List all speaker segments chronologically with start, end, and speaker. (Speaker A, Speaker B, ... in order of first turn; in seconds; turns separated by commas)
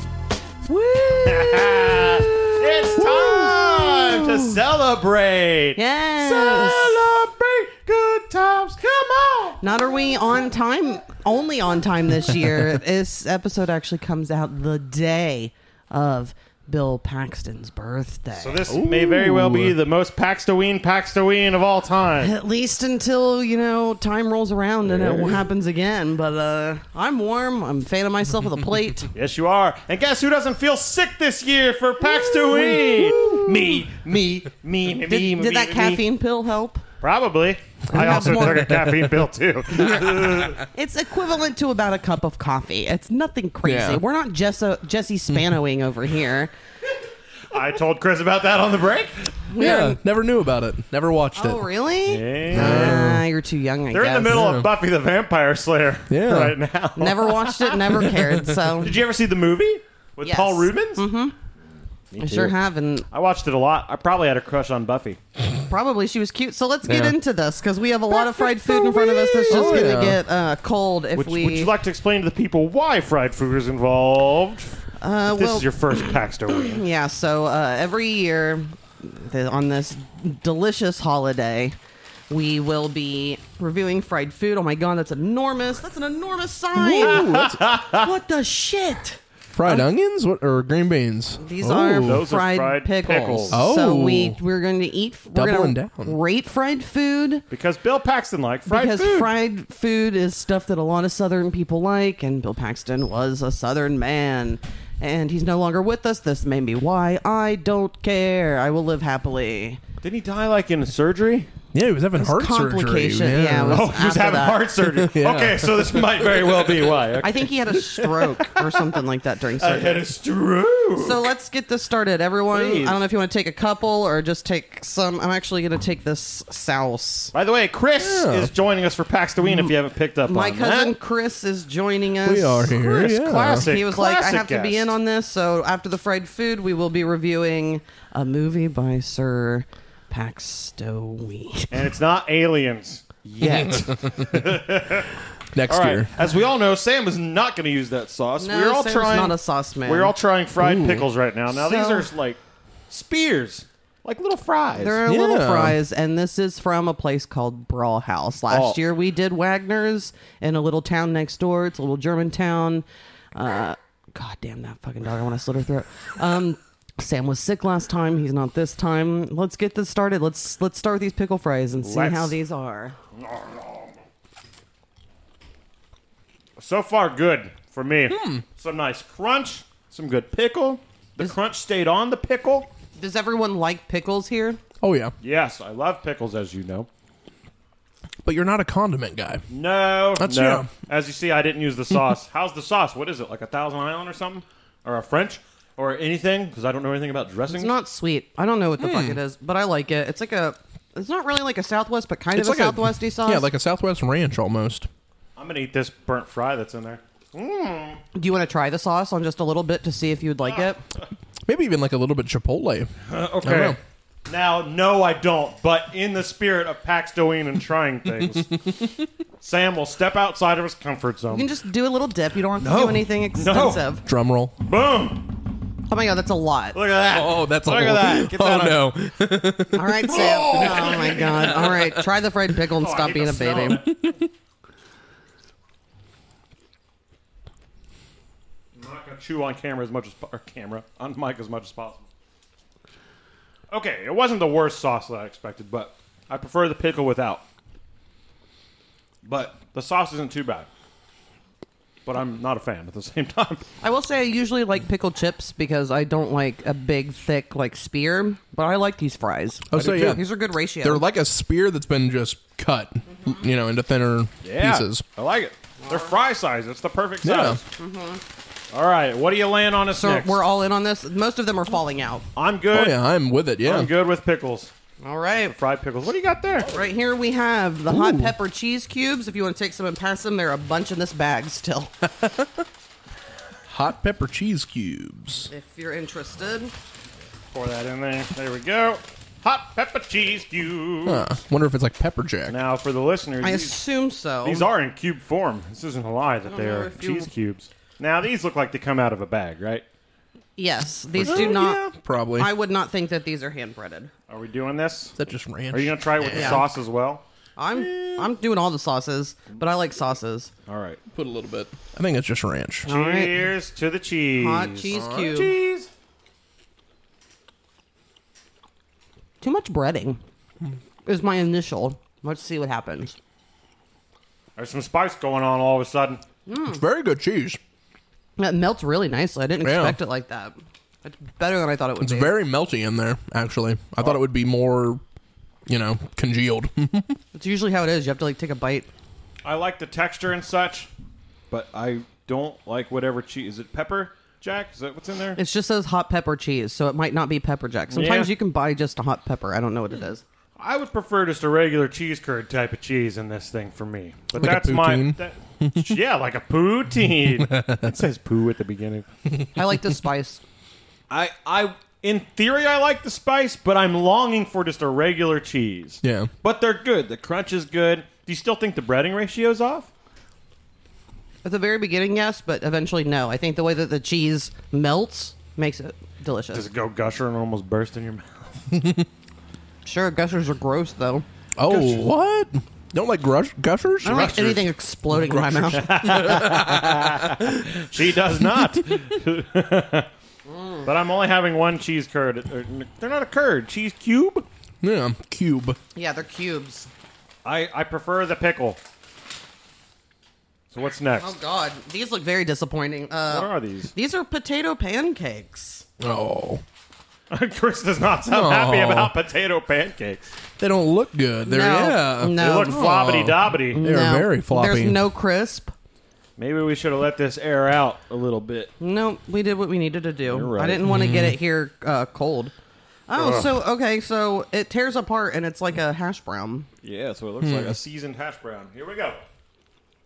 Speaker A: 0.7-4.5, Speaker B: 1.3-9.6, Speaker A: 5.8-7.0, Speaker A: 9.6-18.7, Speaker B: 18.3-22.3, Speaker C: 18.7-19.8, Speaker A: 22.2-29.1, Speaker B: 24.9-25.4, Speaker B: 29.1-36.0, Speaker C: 32.5-33.8, Speaker A: 35.0-36.8, Speaker B: 37.0-40.6, Speaker A: 37.9-38.8, Speaker A: 39.7-46.5, Speaker C: 43.6-44.0, Speaker B: 47.5-49.3, Speaker A: 49.5-50.0, Speaker C: 49.6-51.7, Speaker A: 51.4-54.4, Speaker B: 52.1-53.1, Speaker C: 52.5-53.2, Speaker B: 53.9-57.8, Speaker C: 54.3-54.7, Speaker C: 56.1-56.6, Speaker A: 57.0-59.0, Speaker C: 58.2-58.5, Speaker B: 58.8-61.1, Speaker A: 60.2-61.3, Speaker B: 62.1-62.6, Speaker A: 62.2-63.1, Speaker B: 63.1-65.2, Speaker A: 65.7-71.7, Speaker C: 66.9-67.2, Speaker C: 68.7-70.2, Speaker B: 69.5-70.0, Speaker B: 71.2-74.8, Speaker A: 75.0-81.8, Speaker B: 75.3-76.8, Speaker A: 82.3-89.9, Speaker C: 86.8-87.6, Speaker B: 87.0-88.0, Speaker C: 89.5-92.3, Speaker A: 91.4-97.5, Speaker B: 92.0-93.6, Speaker C: 93.5-94.4, Speaker C: 95.3-96.2, Speaker B: 97.5-99.3, Speaker A: 98.7-109.8, Speaker B: 110.0-111.5, Speaker C: 111.7-113.9, Speaker A: 112.2-114.7, Speaker B: 113.6-118.8, Speaker C: 114.9-116.3, Speaker A: 117.2-120.1, Speaker B: 119.6-121.2, Speaker A: 121.0-127.3, Speaker B: 122.5-123.0, Speaker B: 127.3-130.9, Speaker C: 128.0-128.5, Speaker A: 129.4-129.7, Speaker A: 130.3-141.9, Speaker C: 132.2-133.7, Speaker B: 132.8-134.9, Speaker B: 141.7-145.1, Speaker C: 143.4-143.8, Speaker C: 145.5-146.1, Speaker B: 145.7-152.4, Speaker A: 148.4-150.1, Speaker C: 150.6-151.1, Speaker A: 151.5-152.1, Speaker B: 152.9-155.0, Speaker A: 154.7-172.9, Speaker C: 155.1-155.8, Speaker B: 158.5-158.8, Speaker B: 171.8-172.3, Speaker B: 173.2-174.0, Speaker B: 176.6-182.7, Speaker C: 178.1-178.4, Speaker A: 183.0-184.6, Speaker C: 184.8-185.1, Speaker B: 185.2-186.9, Speaker C: 188.2-189.4, Speaker B: 189.5-197.8, Speaker C: 190.2-190.7, Speaker A: 197.5-203.5, Speaker C: 198.8-199.2, Speaker C: 202.4-204.9, Speaker B: 205.4-208.0, Speaker A: 208.2-210.8, Speaker C: 211.5-212.9, Speaker B: 213.1-218.5, Speaker C: 213.4-213.8, Speaker B: 219.4-221.5, Speaker A: 221.3-224.0, Speaker B: 222.6-223.8, Speaker C: 224.1-224.6, Speaker B: 224.6-225.3, Speaker A: 225.9-226.8, Speaker B: 226.7-228.9, Speaker C: 227.1-230.7, Speaker A: 229.7-233.8, Speaker B: 230.1-231.8, Speaker B: 232.8-234.2, Speaker B: 238.8-242.1, Speaker B: 243.7-247.4, Speaker B: 249.2-250.7, Speaker B: 252.1-253.6, Speaker A: 253.8-261.1, Speaker C: 259.7-265.1, Speaker B: 264.4-267.6, Speaker C: 267.2-267.6, Speaker A: 267.8-268.2, Speaker B: 268.7-270.4, Speaker A: 270.0-272.2, Speaker B: 272.4-273.0, Speaker C: 272.7-273.9, Speaker B: 273.6-274.7, Speaker A: 275.0-275.6, Speaker B: 275.4-276.8, Speaker A: 276.7-281.9, Speaker C: 277.9-278.4, Speaker C: 282.2-282.5, Speaker C: 283.7-285.5, Speaker A: 285.5-286.7, Speaker B: 287.5-291.3, Speaker C: 291.1-292.6, Speaker B: 292.5-293.8, Speaker A: 293.4-294.7, Speaker B: 294.4-299.8, Speaker A: 296.5-297.3, Speaker A: 300.6-301.8, Speaker C: 301.2-302.5, Speaker B: 301.2-301.6, Speaker A: 302.4-304.1, Speaker B: 304.3-305.1, Speaker C: 305.2-306.6, Speaker B: 305.7-307.2, Speaker A: 306.2-306.7, Speaker A: 307.6-310.5, Speaker C: 307.8-308.3, Speaker B: 310.7-311.0, Speaker C: 311.1-312.9, Speaker A: 312.9-313.5, Speaker B: 312.9-315.9, Speaker A: 314.4-315.5, Speaker C: 314.9-315.3, Speaker A: 319.4-320.2, Speaker A: 321.1-323.2, Speaker B: 324.6-326.2, Speaker A: 326.5-326.8, Speaker C: 326.7-327.6, Speaker A: 328.4-332.4, Speaker C: 329.6-330.0, Speaker C: 332.0-335.0, Speaker C: 335.7-337.2, Speaker A: 337.3-338.9, Speaker B: 339.4-340.9, Speaker B: 341.5-345.4, Speaker A: 345.4-350.2, Speaker B: 347.9-348.4, Speaker B: 350.6-359.1, Speaker C: 354.4-355.9, Speaker C: 357.5-357.9, Speaker A: 359.5-360.4, Speaker B: 361.1-369.9, Speaker C: 366.0-366.3, Speaker A: 371.4-376.7, Speaker B: 376.5-378.6, Speaker C: 378.7-379.1, Speaker A: 379.9-381.2, Speaker C: 381.6-384.6, Speaker B: 381.7-382.1, Speaker A: 384.0-386.1, Speaker B: 384.1-384.6, Speaker C: 385.1-387.6, Speaker B: 385.8-390.1, Speaker A: 390.5-390.9, Speaker B: 390.9-394.5, Speaker C: 394.8-395.8, Speaker A: 395.9-396.9, Speaker B: 397.4-398.8, Speaker B: 400.7-401.3, Speaker A: 401.2-405.9, Speaker B: 403.3-403.9, Speaker C: 406.0-406.6, Speaker B: 407.3-410.3, Speaker C: 408.3-409.1, Speaker C: 410.6-415.0, Speaker A: 411.4-412.9, Speaker B: 412.4-413.8, Speaker A: 413.7-415.7, Speaker B: 416.4-418.7, Speaker A: 418.8-422.5, Speaker B: 420.3-420.9, Speaker C: 420.8-421.4, Speaker A: 423.1-426.7, Speaker B: 423.1-423.6, Speaker B: 426.8-429.2, Speaker C: 427.4-427.8